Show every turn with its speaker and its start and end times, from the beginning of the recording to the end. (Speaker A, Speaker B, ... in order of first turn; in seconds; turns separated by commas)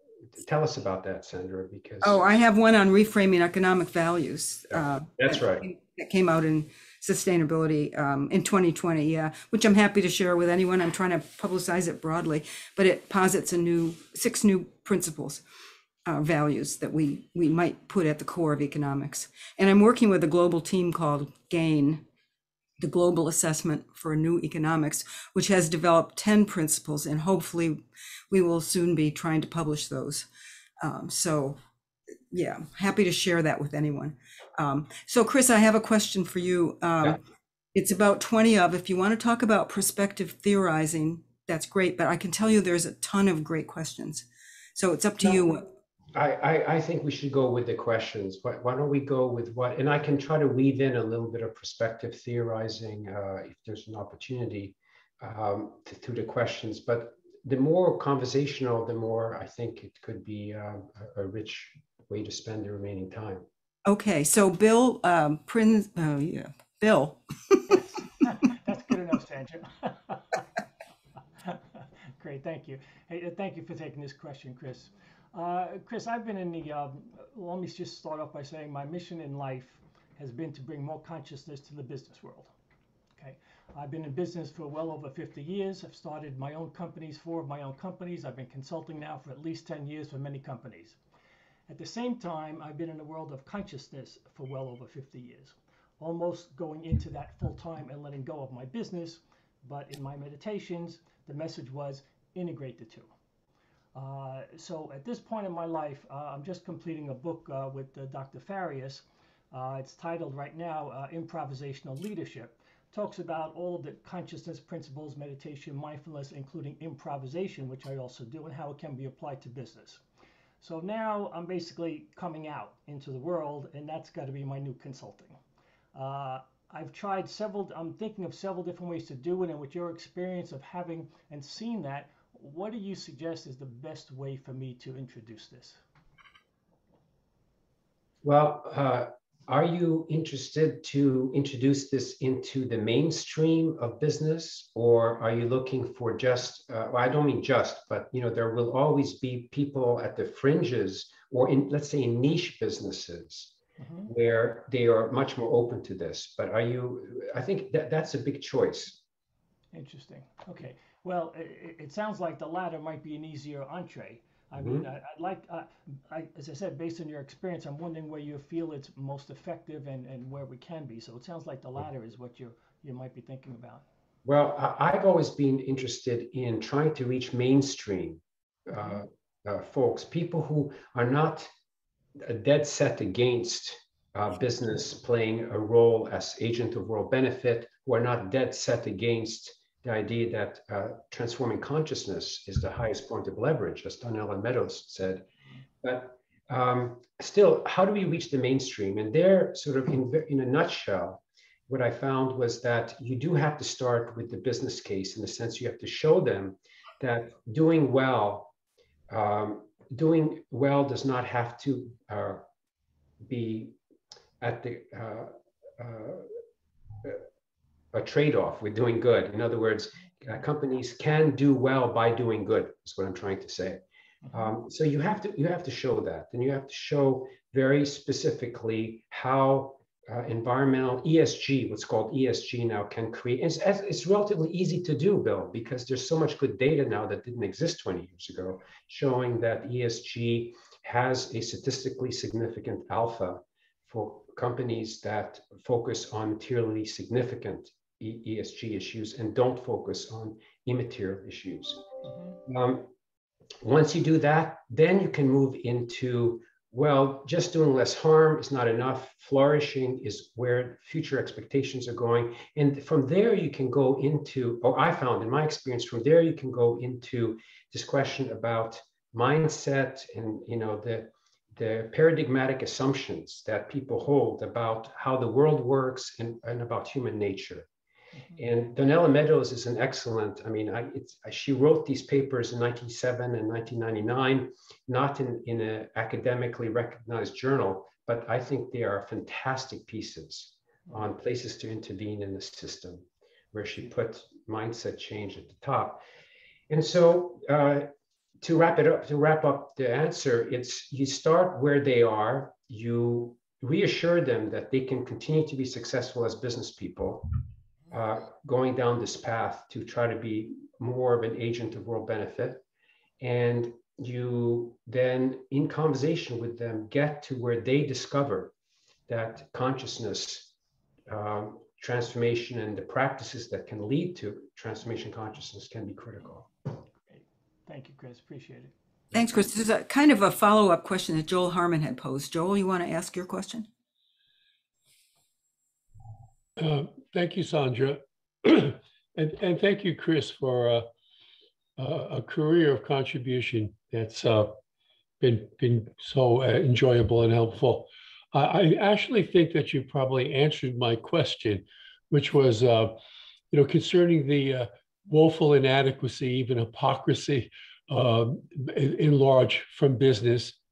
Speaker A: 0.4-2.3, Speaker B: 2.0-15.4, Speaker A: 4.7-5.6, Speaker B: 16.1-22.0, Speaker B: 22.8-30.3, Speaker B: 30.8-31.6, Speaker B: 32.3-37.2, Speaker B: 37.7-45.7, Speaker A: 46.1-63.4, Speaker B: 63.8-67.7, Speaker C: 67.7-70.2, Speaker C: 72.2-82.5, Speaker C: 83.2-91.0, Speaker C: 91.7-103.1, Speaker C: 103.9-120.0, Speaker C: 120.6-125.4, Speaker C: 125.9-135.8, Speaker A: 138.2-153.5, Speaker C: 153.8-154.1, Speaker A: 154.1-159.0, Speaker C: 159.7-173.8, Speaker A: 164.6-164.9, Speaker A: 174.2-181.5, Speaker A: 182.2-195.3, Speaker A: 195.8-208.5, Speaker A: 209.1-212.4, Speaker A: 213.3-213.7, Speaker A: 214.4-216.3, Speaker A: 217.9-251.8, Speaker C: 252.0-252.3, Speaker A: 252.4-252.9, Speaker A: 253.6-277.7, Speaker A: 278.4-296.0, Speaker A: 296.7-297.9, Speaker A: 298.4-307.3, Speaker A: 307.9-312.6, Speaker A: 313.2-318.5, Speaker A: 319.1-320.5, Speaker A: 321.1-326.5, Speaker C: 327.1-328.7, Speaker B: 329.1-333.7, Speaker D: 336.6-340.9, Speaker D: 341.8-344.6, Speaker D: 345.2-352.9, Speaker D: 353.5-360.6